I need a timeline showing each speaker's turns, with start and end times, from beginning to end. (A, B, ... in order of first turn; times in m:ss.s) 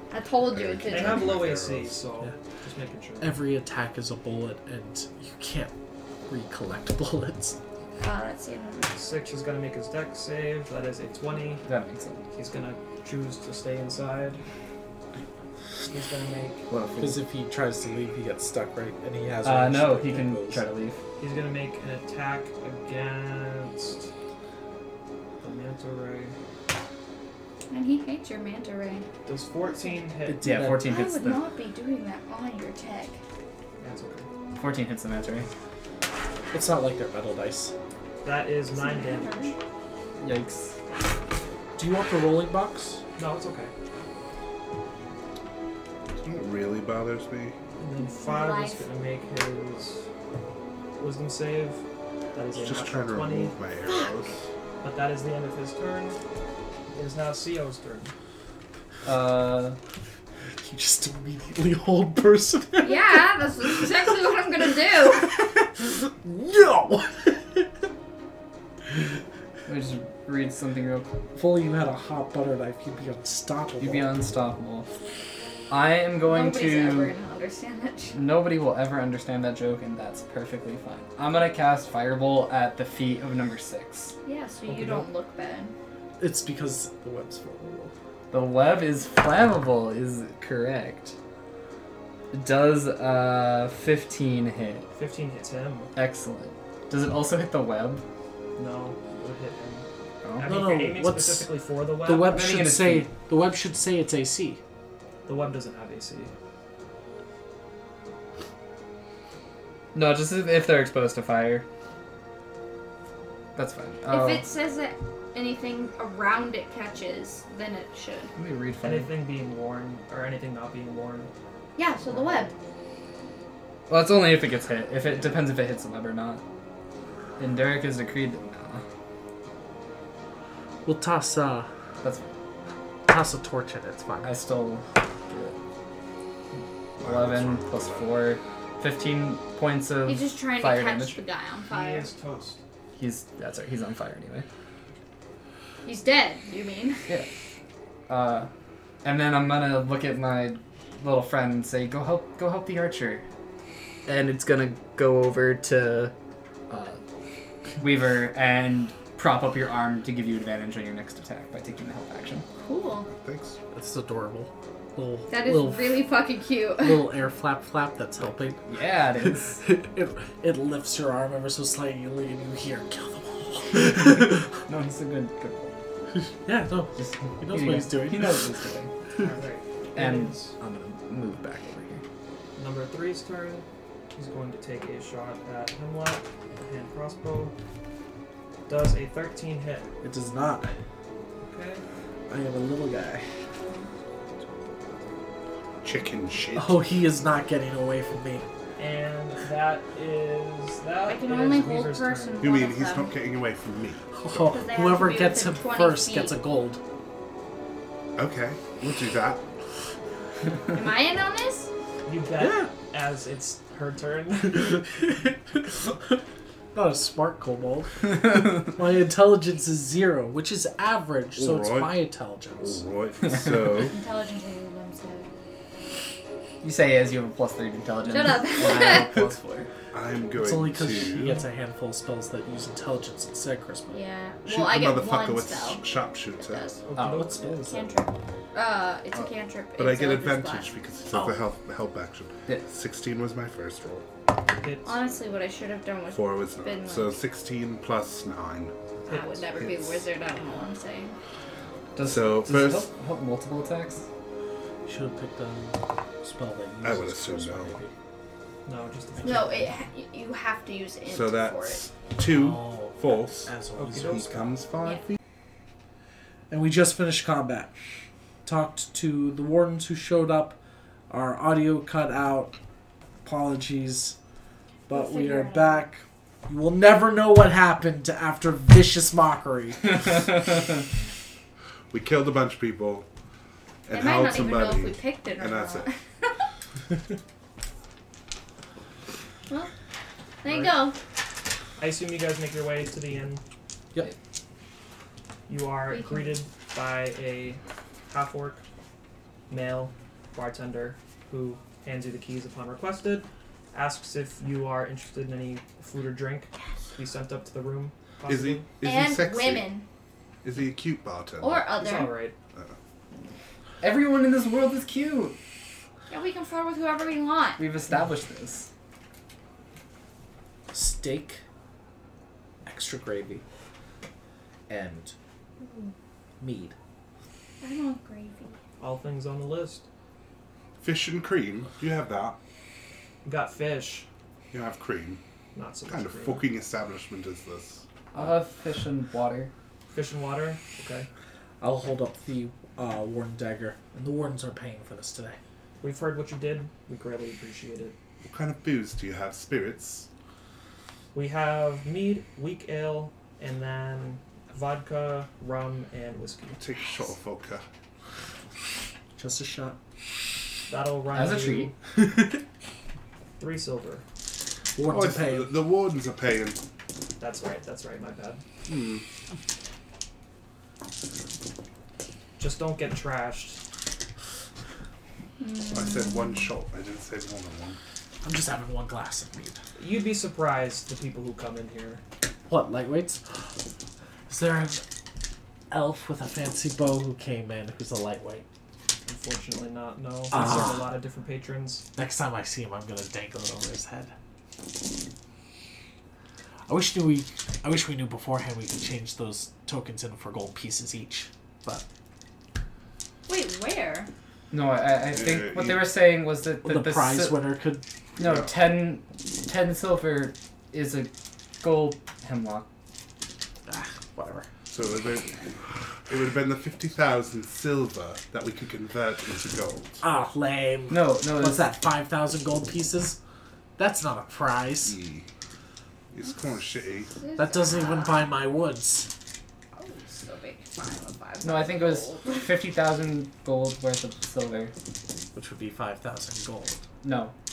0:00.1-0:01.4 A
0:00.5-0:02.0 B
0:00.9-0:03.4 C
0:03.2-0:05.7 D
0:06.3-0:07.6 D
0:08.0-0:09.0 A
0:08.9-0:11.6 C
0:11.6-0:12.2 E
0:12.3-0:14.4 C
0:15.9-0:16.6 C
0:16.7-0:17.2 E
0:17.0-0:20.6 D
0:19.4-0:21.0 E
0:21.2-0:24.1 C
0:25.4-0:26.3 C
0:27.7-0:29.1 A
0:29.2-0:30.4 C
0:29.6-0:30.0 A
0:30.2-0:30.9 D
0:30.4-0:31.4 E
0:30.8-0:33.2 A
0:33.8-0:34.3 C
0:34.6-0:35.5 E
0:36.5-0:37.7 D
0:38.2-0:39.5 C
0:38.7-0:39.5 A
0:40.2-0:40.8 E
0:41.8-0:43.0 D
0:43.2-0:43.7 C
0:46.2-0:47.6 B
0:47.8-0:50.0 C
0:48.0-0:48.8 A
0:51.0-0:51.8 C
0:52.3-0:53.6 C
0:52.5-0:54.5 B
0:54.8-0:56.2 C
0:56.9-0:58.1 C
0:59.0-0:59.8 E
1:00.6-1:03.4 D
1:02.8-1:05.4 A
1:05.2-1:07.7 D
1:09.6-1:11.1 E
1:11.4-1:14.1 D
1:13.8-1:14.9 E
1:15.7-1:17.1 E
1:16.2-1:18.2 A
1:18.1-1:24.1 E
1:24.2-1:25.7 A
1:24.7-1:25.1 E
1:26.2-1:27.9 D
1:28.3-1:31.1 E
1:32.3-1:34.8 E
1:34.9-1:35.9 C
1:35.9-1:38.0 E
1:38.6-1:42.3 C
1:40.2-1:40.5 E
1:40.4-1:44.6 D
1:42.2-1:43.1 E
1:45.2-1:46.3 C
1:49.9-1:51.6 E
1:53.6-1:54.5 E
1:54.1-1:58.3 A
1:58.4-1:59.1 E
1:58.8-2:01.3 C
2:01.8-2:02.5 A
2:02.2-2:02.5 C
2:03.9-2:06.4 E
2:07.4-2:08.8 E
2:10.8-2:11.7 D
2:12.0-2:12.3 E
2:13.1-2:14.4 D
2:14.2-2:15.6 E
2:17.0-2:18.3 B
2:17.0-2:21.2 E
2:20.0-2:22.1 A
2:21.7-2:22.6 C
2:23.0-2:24.4 E
2:25.8-2:27.1 A
2:28.1-2:28.5 E
2:29.0-2:33.2 E
2:34.0-2:36.1 E
2:36.7-2:37.0 E
2:37.8-2:42.4 E
2:42.6-2:43.1 A
2:43.1-2:43.6 B
2:43.7-2:46.0 D
2:45.3-2:47.1 A
2:46.8-2:48.8 D
2:48.7-2:49.6 E
2:49.6-2:54.5 D
2:53.8-2:55.7 E
2:56.2-2:58.5 D
2:57.0-2:58.9 E
2:59.2-3:00.6 C
2:59.9-3:02.0 E
3:02.6-3:07.5 C
3:08.7-3:09.9 C
3:10.0-3:10.7 D
3:11.4-3:11.8 C
3:12.3-3:13.2 D
3:15.8-3:16.8 B
3:16.5-3:18.4 D
3:18.8-3:22.4 C
3:21.1-3:23.1 A
3:22.4-3:24.6 B
3:24.1-3:26.8 D
3:24.5-3:26.4 A
3:28.2-3:29.4 B
3:30.7-3:31.7 A
3:32.0-3:34.8 C
3:32.4-3:32.7 D
3:34.9-3:36.2 D
3:36.7-3:42.8 D
3:41.4-3:42.0 B
3:42.6-3:44.0 B
3:43.2-3:43.5 E
3:43.8-3:45.3 A
3:46.6-3:49.7 E
3:48.1-3:49.2 A
3:49.9-3:51.4 B
3:50.3-3:54.0 D
3:53.9-3:55.8 A
3:54.4-3:56.7 B
3:56.4-3:56.8 A
3:56.8-3:57.7 C
3:56.9-3:57.7 E
3:57.2-3:57.8 D
3:57.6-4:01.3 A
3:59.8-4:04.0 B
4:04.6-4:04.9 C
4:04.8-4:07.2 A
4:06.1-4:08.7 B
4:09.1-4:09.4 C
4:09.1-4:11.2 A
4:09.6-4:10.1 B
4:11.9-4:14.0 E
4:12.0-4:12.9 B
4:14.8-4:17.9 D
4:16.8-4:17.8 B
4:18.6-4:19.7 C
4:19.2-4:21.8 A
4:21.1-4:23.5 B
4:22.2-4:24.6 D
4:23.8-4:24.3 C
4:24.1-4:25.2 B
4:26.5-4:27.8 D
4:28.4-4:30.6 D
4:31.1-4:32.5 D
4:33.2-4:34.2 D
4:34.9-4:40.6 D
4:34.9-4:35.9 A
4:41.9-4:43.1 B
4:43.8-4:45.9 B
4:43.9-4:46.3 A
4:50.4-4:51.0 A
4:51.8-4:53.4 C
4:55.5-4:58.6 C
4:55.9-4:56.4 A
4:59.5-5:08.6 C
5:08.3-5:09.7 B
5:08.8-5:09.8 A
5:10.4-5:11.8 B
5:11.4-5:12.2 A
5:11.7-5:12.4 C
5:13.8-5:15.4 E
5:16.1-5:17.6 A
5:17.6-5:18.7 E
5:20.7-5:21.4 D
5:22.6-5:23.4 D
5:24.7-5:25.1 D
5:26.4-5:26.7 D
5:27.6-5:28.6 A
5:28.8-5:29.8 C
5:30.8-5:32.4 B
5:33.2-5:34.0 C
5:34.5-5:35.2 B
5:35.5-5:36.4 C
5:35.9-5:37.8 B
5:38.1-5:39.5 E
5:39.9-5:41.1 C
5:41.6-5:45.4 D
5:45.8-5:48.0 C
5:48.2-5:50.1 B
5:51.1-5:56.6 C
5:56.6-5:57.6 B
5:59.2-5:59.8 D
6:00.7-6:01.8 C
6:01.1-6:01.7 E
6:01.9-6:02.4 D
6:03.4-6:04.0 C
6:04.8-6:05.5 D
6:04.8-6:06.6 B
6:07.2-6:08.4 C
6:08.6-6:09.0 B
6:12.4-6:13.6 C
6:15.4-6:16.4 A
6:15.7-6:17.8 B
6:18.2-6:19.6 D
6:19.8-6:22.0 C
6:22.5-6:23.4 D
6:24.3-6:24.8 D
6:25.7-6:28.4 D
6:29.0-6:31.8 C
6:30.3-6:30.9 D
6:32.0-6:34.1 D
6:36.7-6:41.8 D
6:43.2-6:44.1 A
6:44.5-6:47.6 E
6:45.1-6:45.9 B
6:46.6-6:47.8 D
6:48.2-6:52.7 E
6:48.2-6:48.5 B
6:53.7-6:54.5 D
6:54.7-6:55.4 B
6:56.1-7:00.0 B
7:00.0-7:03.2 D
7:00.9-7:01.7 E
7:03.8-7:05.0 D
7:04.8-7:05.2 B
7:06.1-7:07.1 B
7:07.1-7:08.4 A
7:07.4-7:09.1 D
7:09.7-7:12.5 A
7:11.4-7:14.7 E
7:15.3-7:16.8 D
7:17.0-7:17.3 E